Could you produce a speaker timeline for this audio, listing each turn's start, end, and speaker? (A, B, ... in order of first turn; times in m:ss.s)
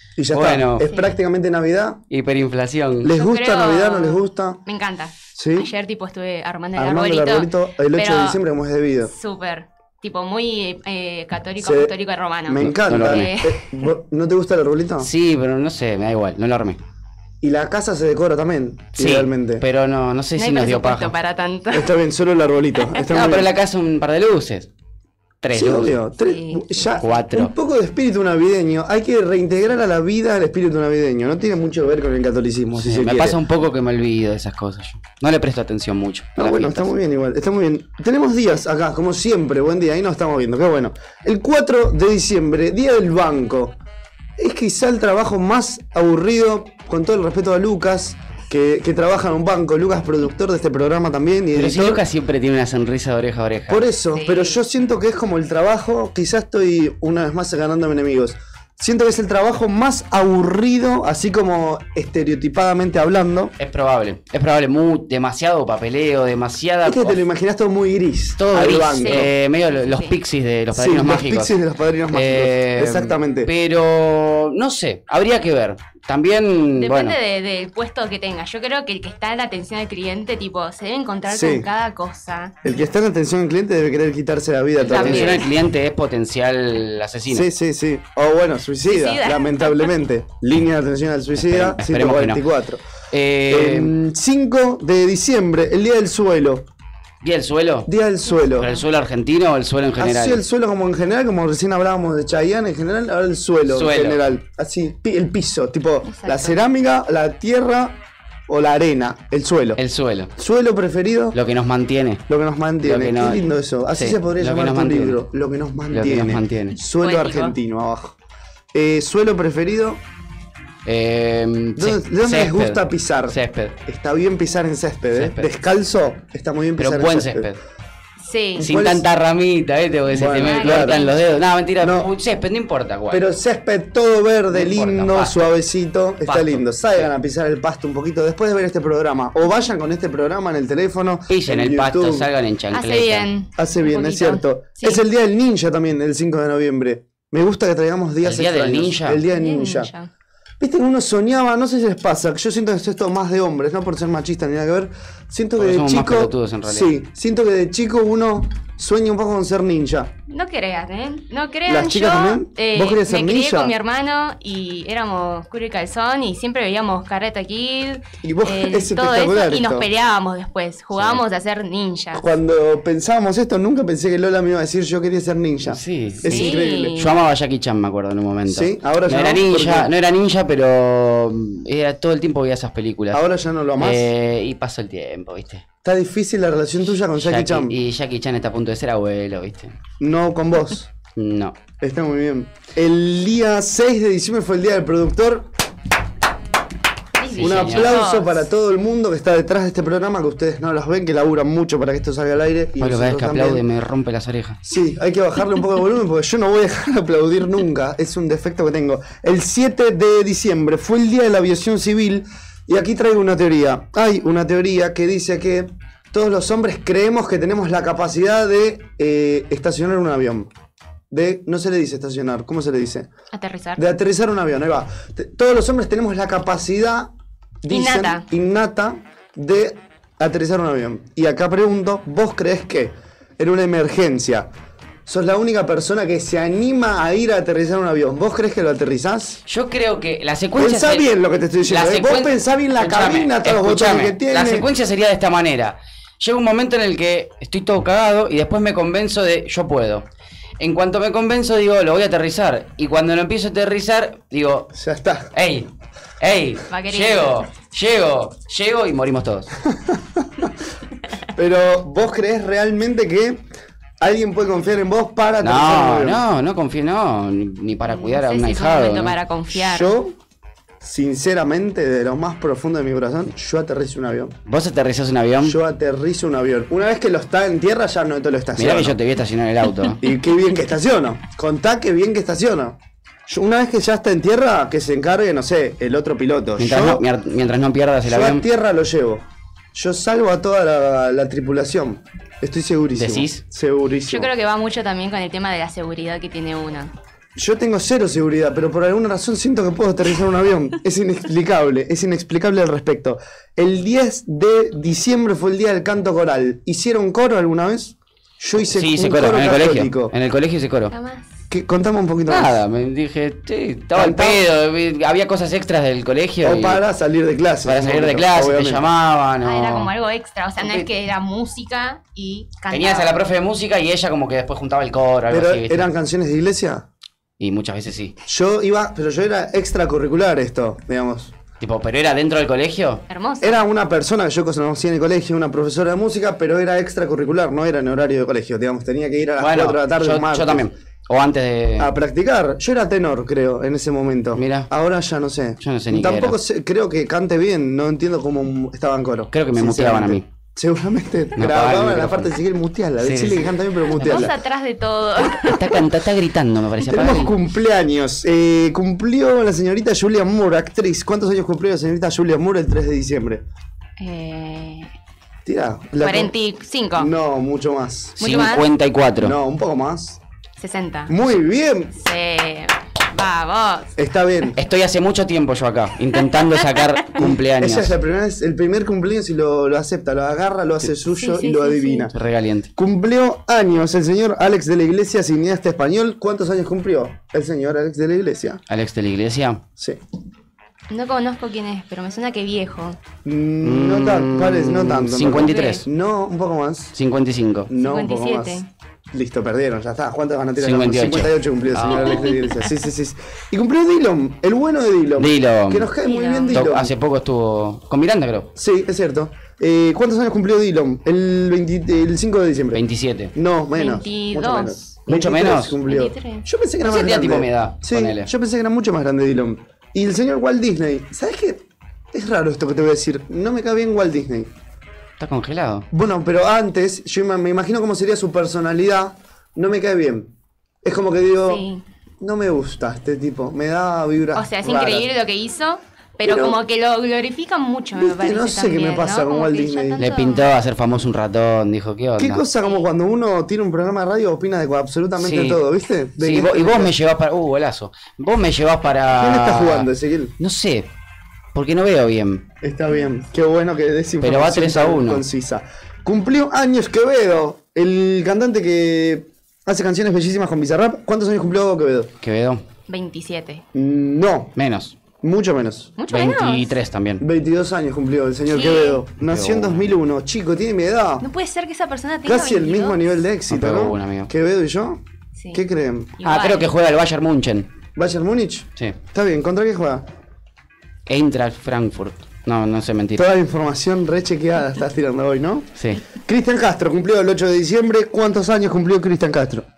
0:00.2-0:02.0 A
0:00.3-0:00.9 B
0:02.1-0:03.1 B
0:03.0-0:04.6 A
0:03.2-0:08.4 C
0:05.4-0:05.7 A
0:06.8-0:09.1 A
0:09.1-0:13.9 C
0:11.6-0:15.1 A
0:12.6-0:13.4 B
0:15.0-0:16.8 B
0:17.4-0:19.6 A
0:19.0-0:21.2 B
0:20.4-0:21.9 C
0:21.7-0:23.5 A
0:23.0-0:24.7 B
0:25.4-0:26.0 B
0:25.5-0:33.4 A
0:26.2-0:27.0 C
0:27.0-0:27.5 B
0:32.8-0:36.9 B
0:36.4-0:43.8 A
0:44.4-0:52.0 A
0:51.5-0:53.9 B
0:53.7-1:03.6 A
0:54.1-0:54.6 C
1:03.6-1:07.2 B
1:06.8-1:09.3 A
1:08.4-1:11.6 B
1:09.0-1:10.2 C
1:10.7-1:13.5 A
1:12.1-1:17.2 B
1:16.8-1:22.6 C
1:21.3-1:21.7 A
1:22.6-1:25.5 A
1:24.8-1:25.5 C
1:24.8-1:27.5 B
1:27.3-1:32.8 A
1:28.8-1:30.0 C
1:31.4-1:32.4 B
1:33.1-1:33.9 B
1:33.5-1:36.7 A
1:37.2-1:37.9 B
1:37.9-1:38.7 A
1:38.4-1:38.8 C
1:38.6-1:40.4 B
1:40.0-1:49.8 A
1:43.7-1:44.2 B
1:46.1-1:46.6 C
1:49.8-1:50.3 B
1:50.4-1:51.4 A
1:51.3-1:52.2 B
1:52.3-1:58.2 A
1:52.8-1:55.2 B
1:55.9-1:56.8 B
1:57.0-1:57.6 C
1:58.7-2:00.0 A
2:00.8-2:03.8 B
2:01.8-2:07.5 A
2:05.1-2:05.5 B
2:06.8-2:07.6 B
2:08.2-2:08.6 C
2:08.6-2:09.0 A
2:08.6-2:13.2 B
2:10.1-2:11.0 A
2:10.4-2:11.2 C
2:11.8-2:12.1 A
2:13.1-2:22.3 A
2:14.5-2:15.4 B
2:16.2-2:17.1 B
2:21.3-2:23.3 B
2:22.7-2:25.0 C
2:23.6-2:29.9 A
2:28.2-2:29.2 B
2:29.3-2:30.1 C
2:30.6-2:40.1 A
2:35.6-2:36.9 B
2:40.3-2:52.2 C
2:41.7-2:43.7 A
2:48.2-2:49.9 A
2:50.9-2:51.2 B
2:52.1-2:57.0 A
2:55.6-3:03.2 B
2:56.2-2:57.2 C
2:58.5-2:59.9 A
3:03.1-3:04.1 A
3:03.8-3:05.6 B
3:05.8-3:07.8 A
3:07.2-3:09.7 B
3:10.0-3:10.9 A
3:11.2-3:11.6 B
3:11.8-3:15.5 A
3:17.2-3:18.4 C
3:17.3-3:18.0 B
3:17.4-3:23.6 A
3:22.8-3:24.6 B
3:24.6-3:40.5 A
3:41.1-3:43.1 A
3:43.3-3:43.9 C
3:43.8-3:47.1 A
3:47.6-3:54.5 A
3:47.7-3:48.2 C
3:55.1-3:59.4 A
3:59.5-4:01.1 B
4:00.6-4:04.7 A
4:01.7-4:10.0 B
4:10.6-4:14.7 B
4:14.7-4:15.3 A
4:15.3-4:15.7 B
4:16.2-4:19.5 B
4:16.7-4:17.5 C
4:19.7-4:20.5 A
4:21.3-4:23.4 A
4:24.0-4:26.2 A
4:25.4-4:29.2 B
4:27.9-4:29.9 C
4:29.5-4:30.2 A
4:30.8-4:34.4 A
4:34.5-4:35.6 B
4:35.4-4:39.0 A
4:38.6-4:40.0 B
4:40.0-4:47.0 A
4:46.6-4:48.5 B
4:48.0-4:54.3 A
4:53.0-4:53.4 B
4:54.1-4:56.9 C
4:57.4-5:10.1 A
5:08.6-5:10.9 B
5:10.9-5:11.4 C
5:11.5-5:12.6 A
5:12.3-5:16.8 B
5:13.9-5:14.4 A
5:16.4-5:18.9 A
5:17.6-5:19.9 B
5:19.4-5:23.1 C
5:20.6-5:20.9 B
5:22.7-5:25.9 B
5:25.3-5:26.9 A
5:27.4-5:28.2 B
5:28.3-5:31.3 A
5:31.6-5:33.0 B
5:33.1-5:33.6 C
5:33.4-5:40.7 A
5:39.4-5:41.9 B
5:41.8-5:54.3 A
5:44.4-5:44.7 B
5:45.6-5:46.4 B
5:49.3-5:50.2 B
5:51.4-5:52.4 B
5:53.0-5:54.2 B
5:53.9-5:55.8 C
5:55.4-5:57.3 B
5:56.8-6:03.4 A
6:04.0-6:04.9 C
6:05.4-6:06.3 A
6:06.0-6:07.1 C
6:07.0-6:08.2 A
6:08.2-6:08.7 C
6:08.2-6:09.4 B
6:09.2-6:10.2 A
6:10.6-6:11.1 C
6:11.1-6:12.0 A
6:12.0-6:13.9 C
6:14.0-6:14.6 A
6:14.6-6:17.9 B
6:17.2-6:22.1 A
6:21.1-6:22.1 C
6:22.1-6:22.7 B
6:22.8-6:28.6 A
6:28.7-6:29.6 B
6:30.9-6:33.0 C
6:33.2-6:36.9 A
6:33.6-6:35.8 B
6:35.3-6:35.8 C
6:37.0-6:37.7 B
6:37.7-6:38.6 A
6:37.8-6:38.7 C
6:39.1-6:46.9 A
6:40.6-6:42.4 B
6:45.2-6:45.9 B
6:46.0-6:46.7 C
6:46.5-6:48.5 B
6:48.6-6:52.8 A
6:52.7-6:53.3 B
6:53.3-7:01.6 A
6:53.7-6:54.9 C
6:55.1-6:55.8 B
6:55.8-6:56.5 C
6:56.8-6:58.3 B
7:02.1-7:04.5 A
7:05.2-7:05.9 B
7:05.9-7:10.3 A
7:10.8-7:11.6 A
7:11.5-7:11.8 C
7:12.2-7:15.1 A
7:14.4-7:20.5 C
7:16.2-7:16.6 A
7:17.9-7:20.0 A
7:20.0-7:22.4 B
7:22.2-7:27.0 A
7:25.2-7:25.6 B
7:26.2-7:30.9 B
7:29.2-7:30.4 A
7:31.5-7:32.5 B
7:32.6-7:42.1 A
7:34.2-7:35.2 B
7:42.2-7:42.6 B
7:42.9-7:43.6 C
7:43.7-7:44.5 A
7:44.6-7:45.0 B
7:45.2-7:45.9 A
7:46.0-7:46.8 C
7:46.1-7:47.2 B
7:47.2-7:51.3 A
7:48.5-7:49.0 C
7:49.2-7:49.9 B
7:51.2-7:53.2 C
7:52.2-7:55.0 A
7:53.5-7:54.3 B
7:55.4-7:55.6 C
7:55.5-7:56.2 A
7:56.2-7:56.7 C
7:56.2-7:57.7 B
7:58.0-8:00.1 A
8:01.1-8:03.3 B
8:03.2-8:09.7 A
8:05.8-8:06.0 B